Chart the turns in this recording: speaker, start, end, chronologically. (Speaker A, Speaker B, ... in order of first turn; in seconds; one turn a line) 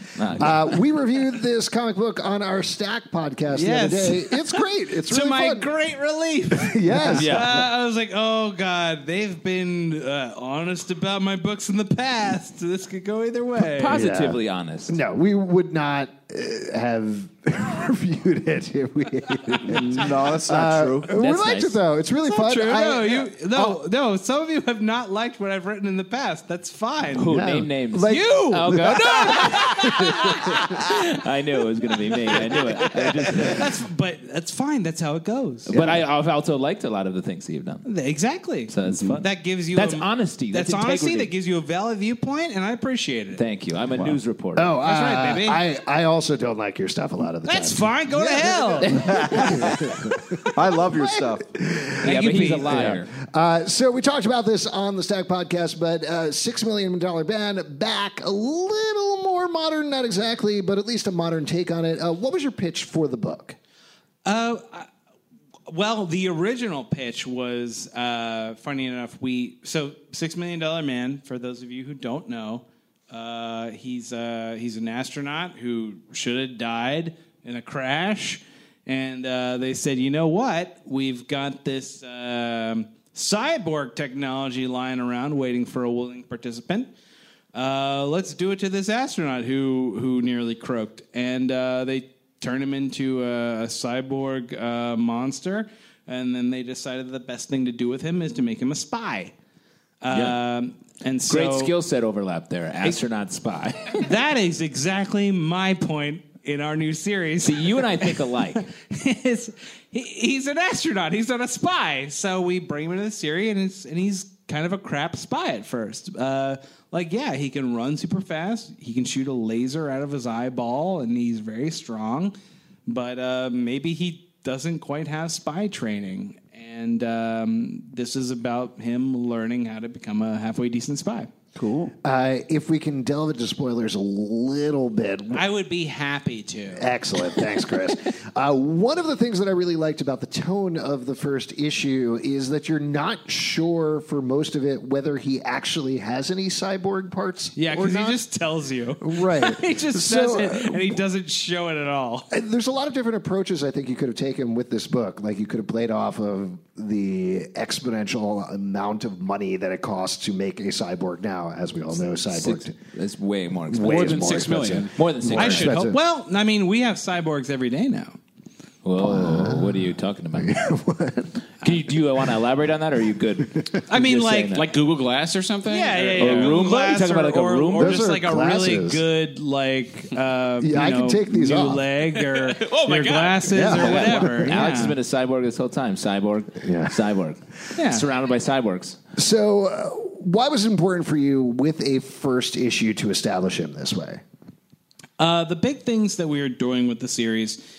Speaker A: 0.2-0.7
Speaker B: 0.4-5.7
Speaker C: 3.5-14.0
Speaker B: 6.5-7.5
Speaker A: 7.1-7.7
Speaker A: 13.6-14.9
Speaker B: 13.9-23.8
Speaker D: 19.8-21.1
Speaker A: 21.1-21.8
Speaker C: 22.2-27.3
Speaker A: 27.1-33.7
Speaker B: 27.3-30.7
Speaker C: 28.1-30.4
Speaker C: 33.4-35.8
Speaker A: 35.7-37.9
Speaker C: 37.9-43.4
Speaker A: 38.7-41.3
Speaker A: 43.4-44.8
Speaker B: 44.6-52.1
Speaker C: 44.8-45.6
Speaker C: 47.5-49.0
Speaker D: 48.9-49.8
Speaker D: 50.5-51.5
Speaker A: 52.0-53.1
Speaker C: 52.0-52.9
Speaker B: 52.9-63.6
Speaker C: 64.2-64.9
Speaker C: 65.7-86.9
Speaker C: 87.5-99.3
Speaker C: 100.0-101.8
Speaker A: 100.1-100.4
Speaker A: 101.3-104.1
Speaker C: 104.0-108.2
Speaker A: 107.4-108.6
Speaker C: 108.8-122.3
Speaker C: 122.9-131.3
Speaker D: 131.6-131.9
Speaker B: 132.0-135.5
Speaker C: 135.3-136.9
Speaker B: 136.8-148.2
Speaker C: 147.6-152.3
Speaker B: 149.0-151.0
Speaker B: 152.3-162.8
Speaker A: 162.1-165.8
Speaker B: 163.7-166.0
Speaker E: 163.8-165.6
Speaker C: 165.4-168.2
Speaker A: 168.8-170.5
Speaker B: 169.0-171.4
Speaker A: 171.6-174.7
Speaker C: 173.9-174.6
Speaker E: 174.5-176.7
Speaker C: 175.7-185.0
Speaker A: 176.2-178.1
Speaker B: 177.8-179.0
Speaker B: 180.6-181.8
Speaker E: 182.1-183.8
Speaker B: 183.5-184.6
Speaker A: 184.1-189.0
Speaker B: 186.6-187.0
Speaker C: 187.8-188.1
Speaker B: 189.2-194.2
Speaker C: 195.2-197.6